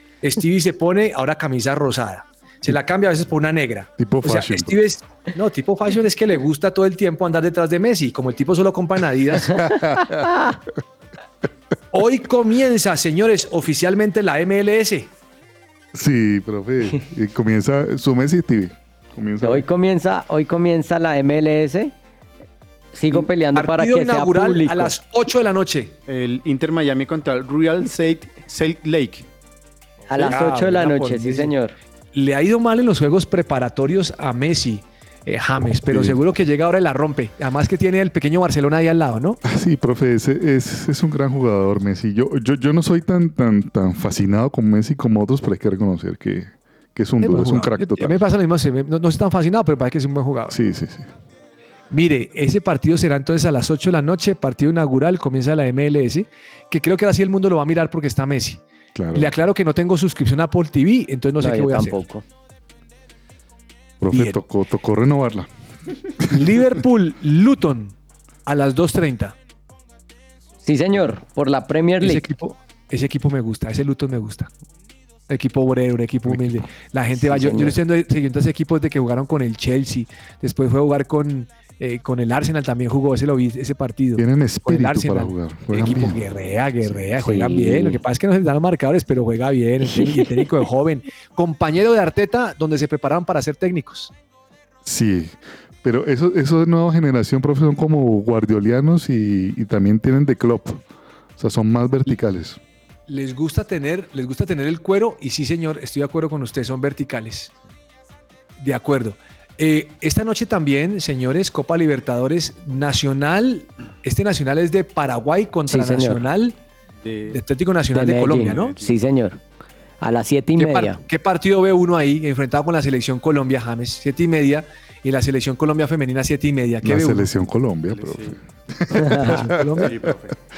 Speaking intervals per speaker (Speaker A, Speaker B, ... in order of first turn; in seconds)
Speaker A: 0.2-9.7, 11.9-15.1, 23.1-25.9, 30.1-31.5, 32.1-39.4, 47.2-50.6, 51.9-58.6, 59.1-62.0, 64.1-64.4, 66.3-68.0, 68.5-69.4, 72.0-74.5, 75.3-94.1, 103.1-107.5, 108.6-116.6, 117.3-118.8, 120.6-127.3, 129.0-129.9
Speaker B: 4.0-4.8, 9.5-10.3, 15.9-19.7, 35.9-36.2, 39.5-48.2, 50.5-51.1, 59.0-59.3, 64.0-65.5, 66.0-66.5, 84.2-86.3, 86.8-88.0, 94.8-100.8, 101.4-102.6, 126.8-130.1
Speaker C: 19.4-21.9, 22.9-24.9, 30.1-31.7, 61.4-62.2, 70.6-72.3, 77.3-77.7, 87.3-87.7, 90.0-90.4, 115.7-116.2, 117.9-119.4, 120.0-121.0, 128.9-129.4
Speaker D: 26.1-29.3, 117.0-117.4, 118.4-118.9, 127.9-128.4, 129.8-130.4